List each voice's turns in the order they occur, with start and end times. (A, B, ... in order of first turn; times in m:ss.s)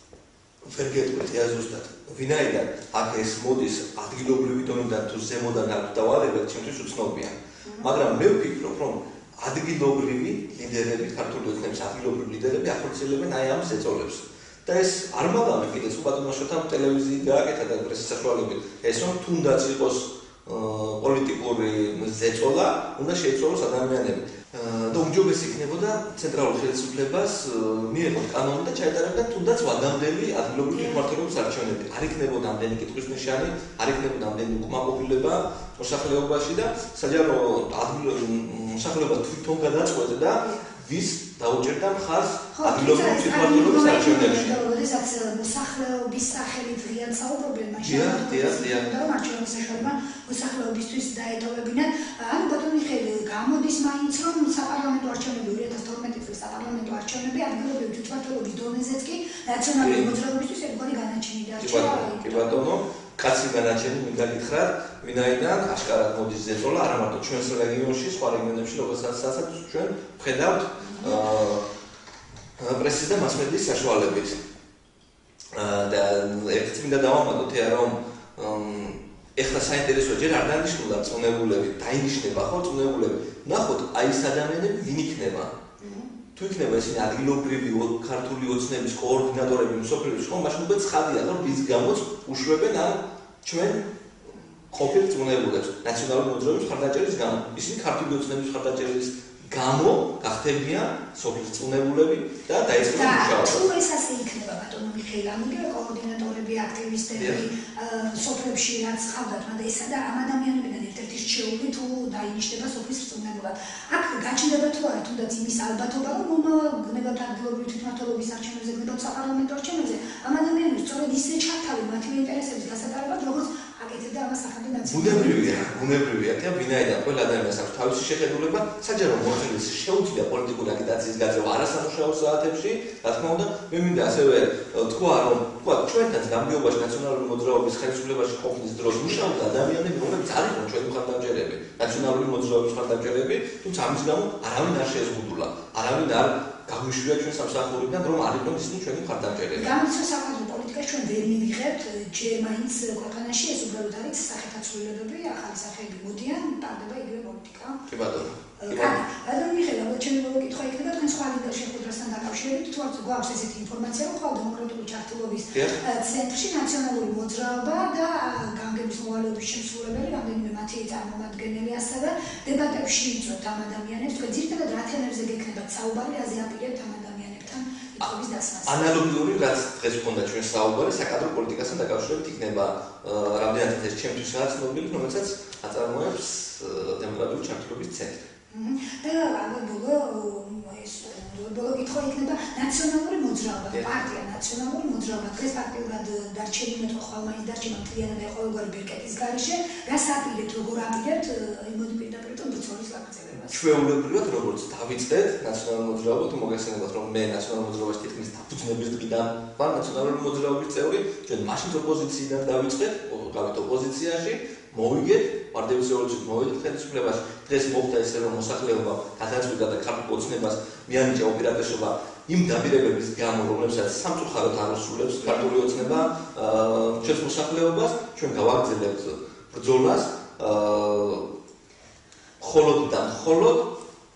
0:00.6-0:44.6 A
0:42.5-1:02.6 B
0:47.8-0:48.9 A
0:59.8-1:00.1 A
1:01.6-1:11.6 A
1:10.8-1:11.2 B
1:12.6-1:14.4 A
1:15.5-1:25.5 A
1:25.8-1:26.1 B
1:26.4-1:33.8 A
1:34.7-1:43.7 A
1:42.9-2:05.7 B
1:47.1-1:47.4 A
2:04.8-2:29.7 A
2:29.5-2:37.8 B
2:37.9-2:39.0 A
2:38.6-2:58.8 B
2:45.5-2:45.8 A
2:58.6-3:08.2 A
3:08.5-3:23.6 B
3:13.7-3:14.0 A
3:23.4-3:51.2 A
3:45.4-3:46.0 B
3:52.4-3:53.7 A